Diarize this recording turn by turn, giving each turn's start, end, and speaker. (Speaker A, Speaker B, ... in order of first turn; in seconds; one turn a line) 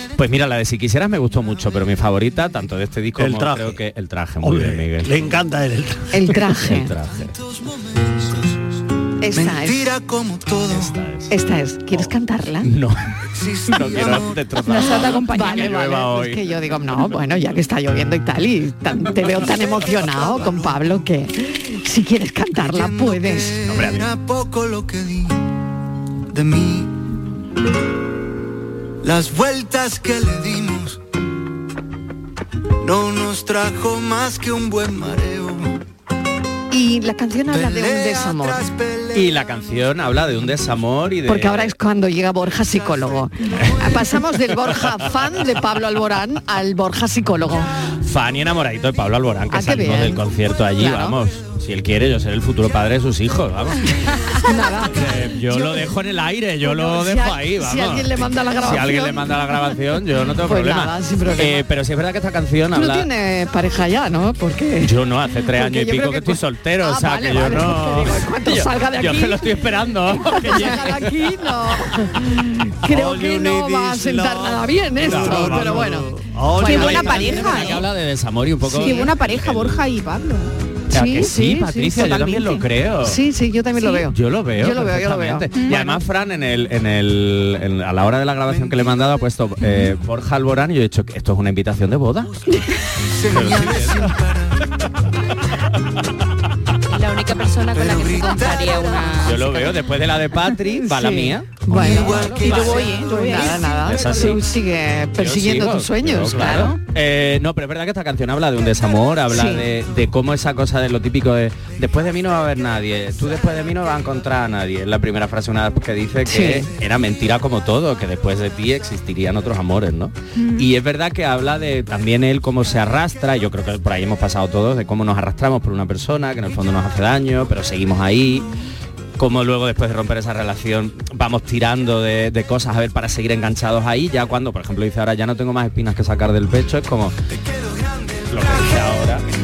Speaker A: 0.2-5.3
Speaker B: 3.2-3.8
Speaker B: 4.4-6.2
Speaker C: 6.1-6.9
Speaker A: 6.5-7.4
Speaker D: 7.4-8.6
Speaker C: 9.2-9.9
Speaker D: 9.3-11.0
Speaker A: 10.7-11.3
Speaker C: 11.3-12.7
Speaker A: 12.6-13.1
Speaker D: 13.3-14.4
Speaker A: 13.7-16.4
Speaker E: 14.7-16.1
Speaker C: 14.8-23.6
Speaker D: 20.0-20.7
Speaker D: 22.6-25.5
Speaker A: 23.6-24.1
Speaker D: 26.3-27.0
Speaker D: 29.0-31.0
Speaker D: 32.8-35.8
Speaker C: 36.7-38.7
Speaker D: 37.5-39.3
Speaker A: 39.1-41.8
Speaker C: 41.3-47.7
Speaker D: 42.7-43.3
Speaker A: 48.0-53.9
Speaker C: 49.5-50.2
Speaker C: 50.8-51.2
Speaker C: 54.3-55.9
Speaker A: 54.9-63.1
Speaker C: 56.6-59.5
Speaker C: 60.4-61.6
Speaker C: 62.7-69.5
Speaker A: 64.8-71.1
Speaker C: 70.2-77.4
Speaker B: 72.8-77.7
Speaker A: 75.0-75.8
Speaker E: 76.6-77.8
Speaker A: 76.7-79.8
Speaker E: 78.7-80.5
Speaker C: 78.8-79.1
Speaker C: 80.9-82.4
Speaker A: 80.9-83.2
Speaker E: 82.0-82.6
Speaker C: 83.0-85.8
Speaker A: 84.1-92.3
Speaker E: 85.6-85.8
Speaker D: 88.5-88.8
Speaker D: 92.3-94.7
Speaker A: 93.3-94.1
Speaker F: 96.9-99.2
Speaker D: 97.7-99.2
Speaker A: 99.2-102.7
Speaker C: 100.7-106.8
Speaker D: 101.7-103.6
Speaker E: 102.3-104.5
Speaker A: 103.7-104.5
Speaker A: 105.2-128.5
Speaker C: 109.3-109.7
Speaker C: 116.3-116.7
Speaker E: 120.4-120.7
Speaker A: 129.2-137.2
Speaker D: 137.5-138.9
Speaker A: 138.3-139.2